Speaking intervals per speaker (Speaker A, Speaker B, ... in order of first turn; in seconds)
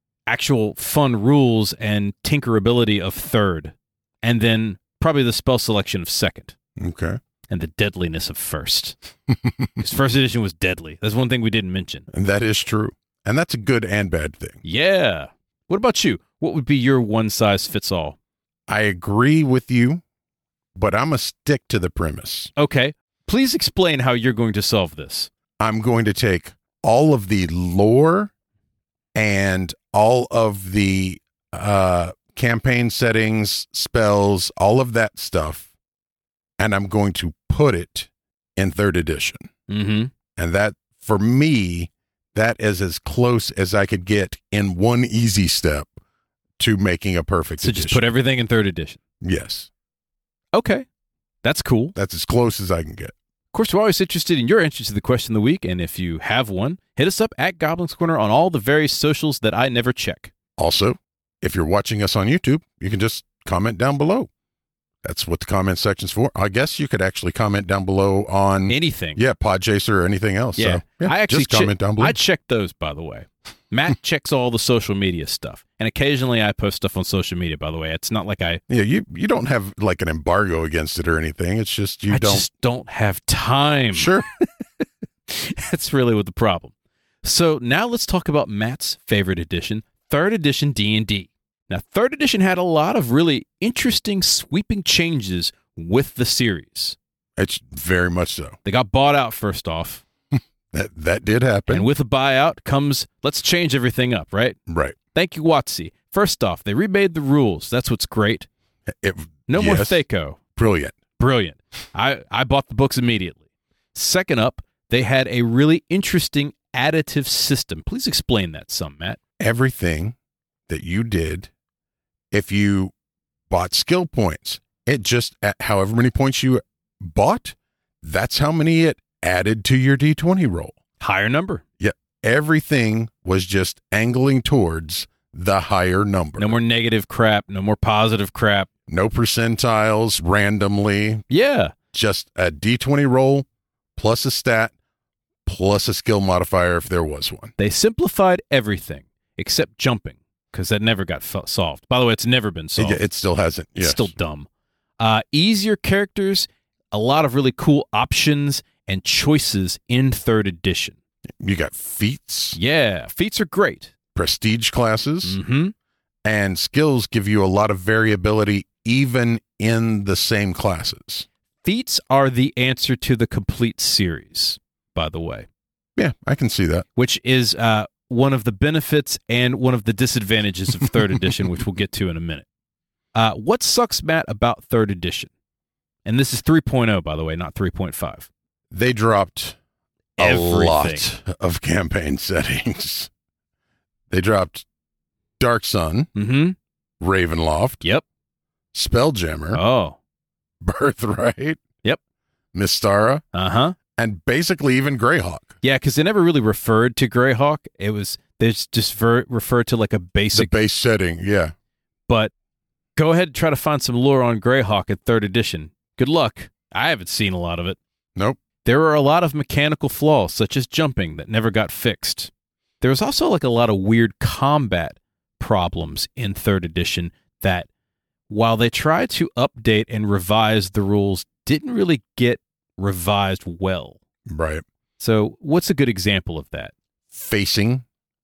Speaker A: 0.3-6.5, 7.5-8.9, 9.8-12.1, 14.6-18.2, 22.6-25.3, 39.7-40.1, 47.6-49.0, 50.5-50.8, 51.4-51.9, 53.5-60.3, 68.7-69.2, 70.6-78.6, 82.1-84.2, 85.3-86.7, 87.2-97.0, 98.6-100.0, 101.7-104.6, 105.1-108.5, 109.5-110.4, 111.2-113.4, 113.9-119.2, 131.0-131.6, 136.4-138.7, 141.3-141.7, 147.6-153.0, 153.8-154.5, 155.0-160.9, 162.6-163.9, 165.2-165.7, 171.6-175.5, 176.9-182.4, 183.1-185.3, 186.0-188.3, 190.2-191.0, 196.1-196.6, 199.5-200.0, 203.3-203.8, 205.6-210.5, 212.9-217.8, 218.6-227.7, 228.3-234.0, 235.0-236.7
Speaker B: 6.8-7.2, 9.3-9.7, 12.1-14.6, 18.7-20.0, 20.8-22.5, 25.6-28.3, 29.1-35.7, 36.6-39.5, 40.4-45.9, 46.6-48.0, 49.2-49.7, 51.9-53.1, 60.6-64.3, 65.0-72.2, 78.7-82.4, 83.9-84.2, 97.4-98.6, 100.7-101.9, 104.7-105.0, 109.0-110.0, 110.5-111.0, 119.4-120.2, 120.7-121.5, 122.3-122.9, 123.5-130.8, 131.8-136.6, 138.9-141.2, 141.9-144.7, 145.4-147.5, 152.8-154.1, 161.4-162.6, 164.1-165.4, 166.2-171.3, 175.9-176.8, 188.7-189.6, 190.2-193.1, 194.1-194.6, 195.4-196.1, 197.0-197.8, 198.7-199.6, 200.6-201.6, 202.5-203.2, 204.0-205.6, 210.3-211.5, 234.3-234.6, 237.1-237.8